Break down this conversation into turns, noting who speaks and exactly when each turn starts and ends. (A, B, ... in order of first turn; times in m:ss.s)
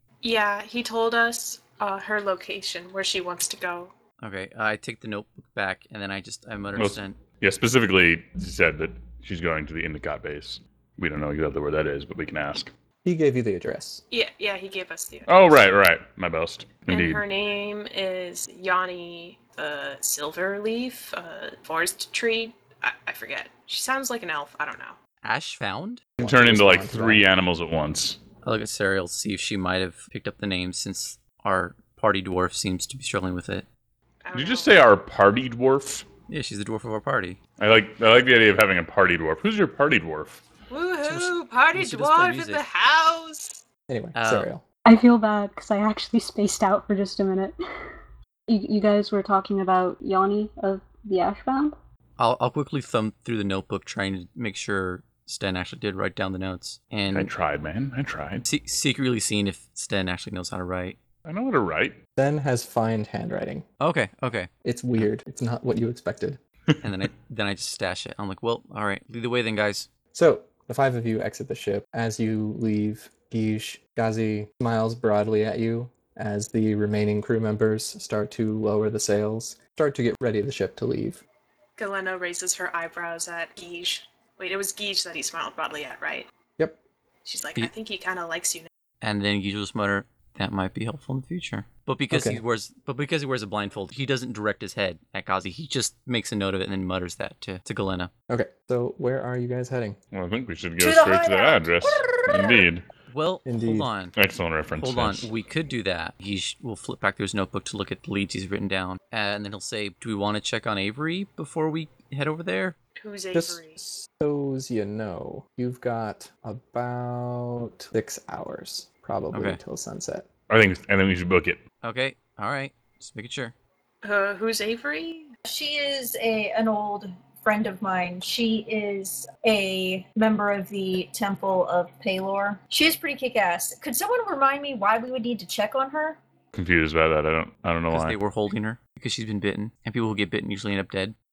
0:00.2-0:03.9 A
0:04.2-0:07.2 B
0:06.8-0:12.7 C
0:13.0-0:14.0 D
0:14.1-0:15.7 A
0:15.3-0:17.2 C
0:16.9-0:25.0 A
0:25.2-0:26.0 B
0:26.2-0:27.2 D
0:26.2-0:28.2 C
0:28.4-0:33.7 B
0:34.2-0:34.8 A
0:34.3-0:36.1 C
0:36.3-0:37.4 B
0:37.6-0:40.4 C
0:40.7-0:43.6 A
0:41.0-0:42.6 B
0:43.9-0:44.6 D
0:44.2-0:44.5 B
0:44.9-0:47.6 E
0:48.5-0:51.8 E
0:52.2-0:57.3 B
0:57.1-0:58.5 C
0:58.5-1:01.0 B
1:01.3-1:02.0 C
1:02.2-1:03.6 D
1:03.8-1:05.1 B
1:04.6-1:06.4 D
1:06.8-1:09.9 B
1:10.1-1:21.2 D
1:21.8-1:26.3 A
1:27.2-1:28.7 A
1:29.0-1:38.1 B
1:32.1-1:32.4 D
1:38.3-1:40.0 D
1:40.1-1:42.8 C
1:40.8-1:42.7 F
1:43.1-1:44.2 B
1:43.5-1:43.9 D
1:44.2-1:45.3 C
1:44.8-1:52.8 B
1:53.0-1:53.8 A
1:53.3-2:00.3 D
1:59.3-1:59.6 B
2:00.5-2:01.6 C
2:01.8-2:03.5 B
2:04.0-2:05.3 A
2:05.4-2:16.2 F
2:16.5-2:18.2 C
2:17.9-2:21.1 B